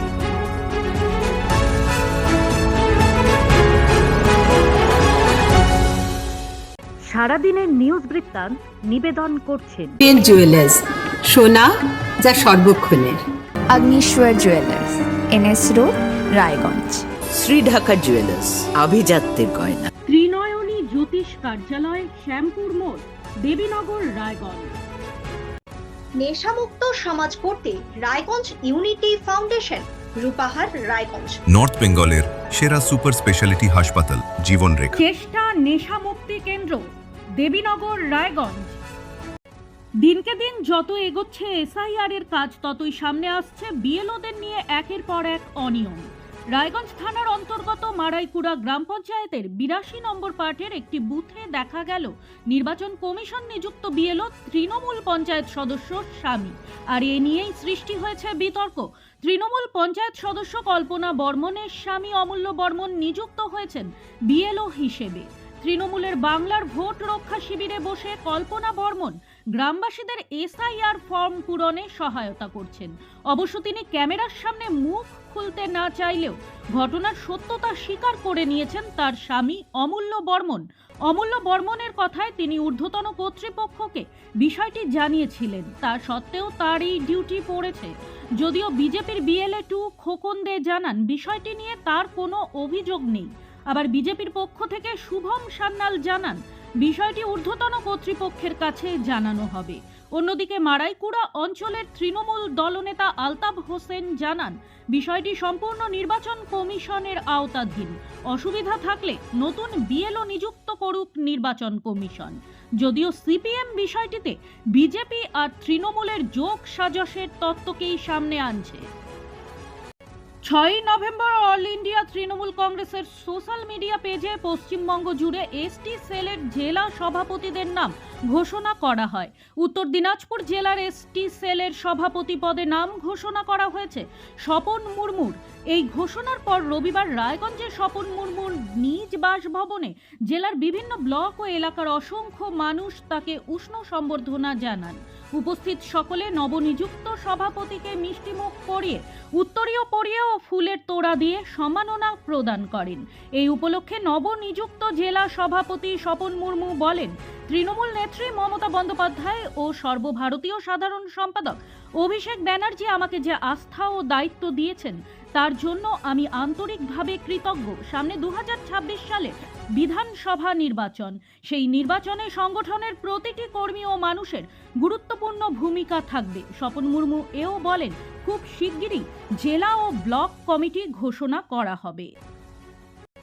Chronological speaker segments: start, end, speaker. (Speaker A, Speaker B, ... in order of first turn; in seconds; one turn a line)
Speaker A: 7.0-10.0
Speaker B: 10.0-11.7
Speaker B: 12.2-13.2
Speaker C: 13.7-17.1
Speaker D: 17.3-19.9
Speaker A: 20.1-24.8
Speaker E: 26.2-31.4
Speaker F: 31.5-35.0
Speaker A: 35.0-36.8
Speaker A: 37.4-38.8
Speaker A: 40.0-118.8
Speaker A: 120.4-182.1